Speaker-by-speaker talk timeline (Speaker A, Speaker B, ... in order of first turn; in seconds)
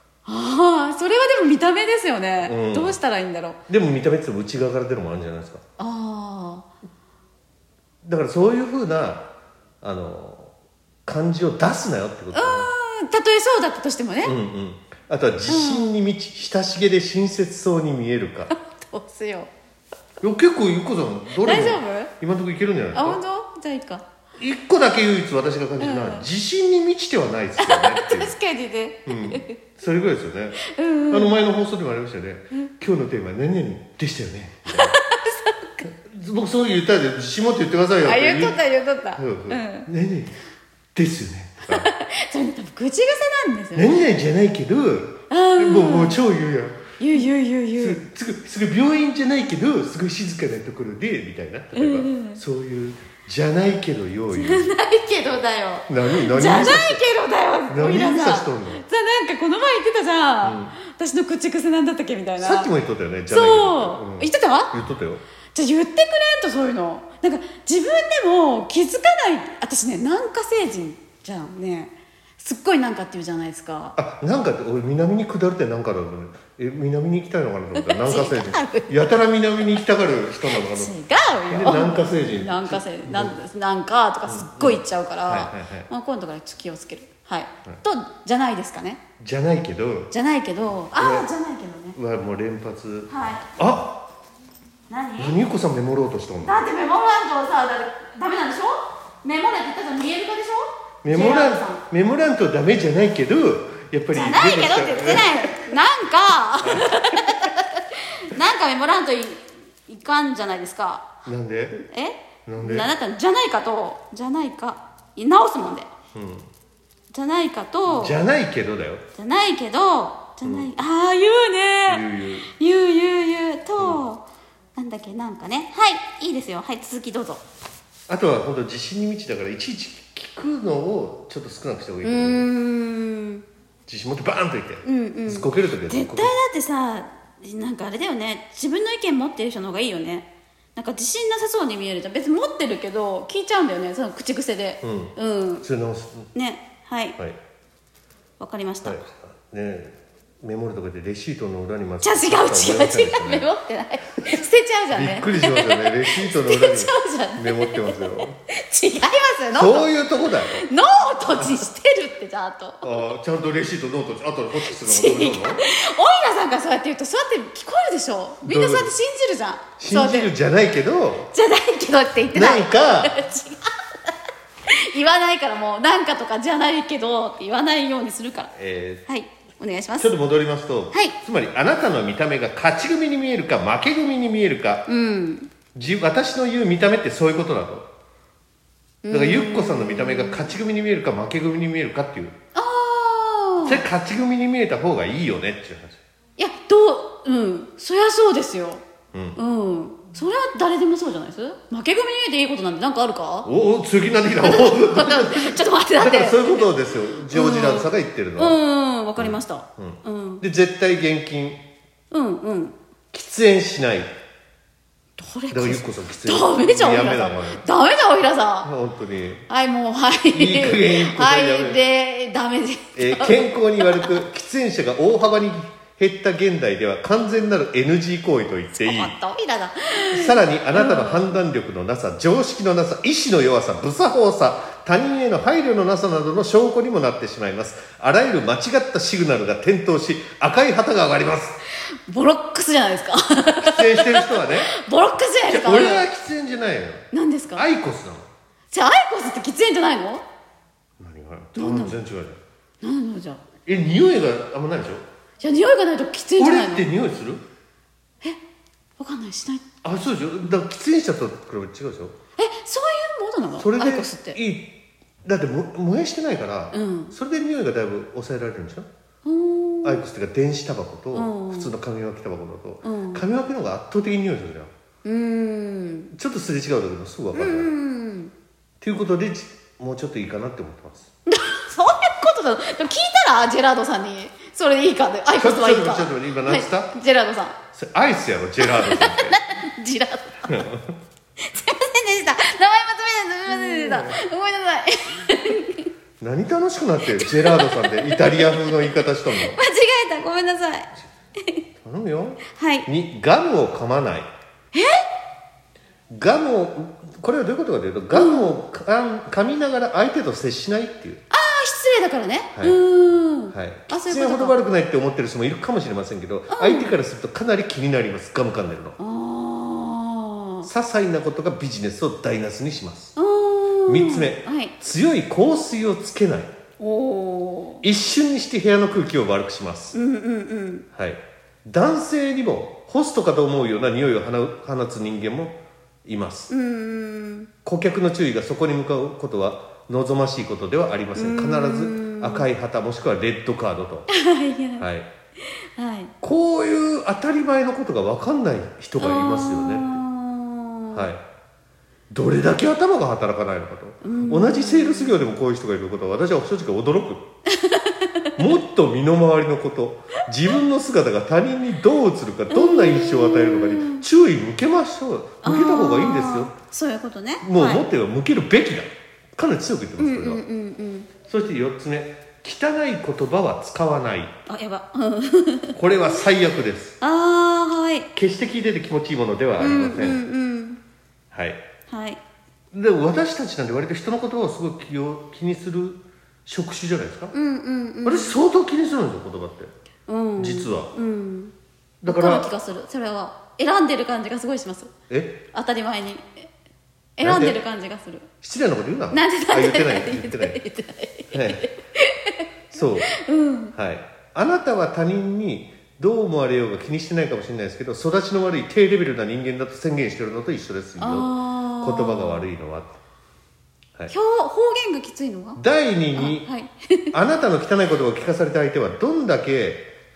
Speaker A: 0.2-3.6, 5.8-6.7, 12.3-14.3, 15.5-15.9, 18.5-19.5, 21.4-22.1, 22.9-24.1, 25.8-26.3, 27.6-29.6, 30.6-31.4, 34.6-35.8, 38.0-39.9, 41.7-44.0, 45.3-46.2, 47.0-48.0, 51.7-52.4, 54.3-62.7, 63.3-64.7, 65.5-74.0, 77.7-78.9, 80.5-89.0, 90.1-92.0, 93.1-93.5, 94.9-95.4, 96.4-101.8, 104.1-111.1, 111.7-115.9, 117.1-118.2, 119.1-127.4, 132.0-133.4, 134.8-145.7, 146.3-147.2, 148.4-149.0, 152.0-163.0, 164.6-170.3, 171.3-174.1, 174.7-178.5, 179.1-180.1, 184.9-185.5, 189.0-190.5, 192.5-193.8, 196.4-198.8, 199.3-203.5, 204.4-210.4, 212.1-212.8, 215.2-218.7, 219.5-224.2, 228.8-231.4, 241.7-246.1, 247.1-247.7, 248.7-250.2, 251.6-251.9, 252.8-253.4, 255.4-256.9, 259.0-259.7, 262.4-264.4, 266.7-267.1, 269.2-270.0, 271.1-271.7, 272.8-273.2, 275.0-276.1, 277.3-278.3, 281.2-287.6, 288.6-290.6, 291.4-295.9, 297.1-301.6, 302.5-302.9, 304.7-305.0, 308.1-308.6, 311.3-314.6, 316.5-316.9, 319.0-320.7, 323.1-324.7, 326.8-327.8, 329.9-330.9, 336.5-337.5, 341.1-342.5, 344.1-344.9, 345.4-346.1, 349.0-351.1, 354.0-355.2, 357.5-358.4, 362.5-364.1, 365.4-367.8, 370.0-371.1, 374.5-376.2, 377.0-378.1, 379.6-380.8, 381.9-382.2, 387.3-388.4, 390.1-391.5, 392.1-394.9, 395.5-396.5, 397.2-398.3, 399.1-403.7, 411.0-412.4, 414.1-415.6, 416.1-417.1
Speaker B: 2.4-3.0, 3.7-5.6, 8.0-9.3, 9.8-10.5, 11.1-12.7, 14.2-18.5, 20.2-23.2, 24.4-28.3, 29.1-35.0, 35.8-38.6, 39.1-40.4, 40.9-41.9, 43.7-47.0, 47.8-54.7, 55.9-57.0, 57.7-58.8, 60.4-60.8, 62.4-65.2, 74.0-80.9, 81.5-83.3, 84.2-85.9, 89.2-90.1, 91.0-91.3, 91.9-94.0, 95.2-96.6, 101.0-105.7, 106.6-107.5, 111.2-111.8, 112.5-112.9, 116.1-116.5, 117.9-119.0, 120.4-120.7, 121.9-122.5, 123.8-124.0, 128.1-132.5, 133.9-136.3, 144.8-146.3, 148.8-153.5, 154.9-158.4, 159.5-160.7, 161.4-161.6, 162.8-165.7, 168.4-168.9, 169.8-171.3, 172.3-173.2, 178.5-179.0, 180.0-184.9, 185.7-187.9, 189.1-192.3, 193.6-196.0, 199.1-199.4, 203.4-208.6, 209.2-211.6, 213.1-214.1, 215.5-217.6, 218.6-219.4, 220.3-221.8, 222.9-229.1, 230.1-241.6, 243.6-244.7, 245.5-248.3, 251.0-252.4, 253.7-255.0, 256.4-257.4, 259.8-262.1, 263.6-264.7, 265.2-268.9, 269.8-274.7, 276.1-277.7, 278.8-281.1, 285.4-286.9, 287.7-289.4, 290.4-290.9, 293.5-294.2, 296.2-299.6, 301.8-304.3, 306.1-311.2, 312.5-312.8, 313.5-319.0, 320.6-323.1, 323.9-326.5, 327.8-329.9, 330.9-336.5, 337.6-344.1, 344.8-345.1, 346.2-350.0, 350.9-351.2, 352.1-357.3, 358.4-366.5, 367.4-370.4, 371.2-374.4, 375.7-377.0, 378.1-380.2, 381.3-381.6, 382.7-387.3, 388.0-389.7, 390.4-390.9, 392.0-392.5, 395.1-395.4, 397.2-397.6, 398.4-400.6, 401.3-401.7, 402.7-403.1, 403.7-412.9, 415.6-416.5, 417.1-419.9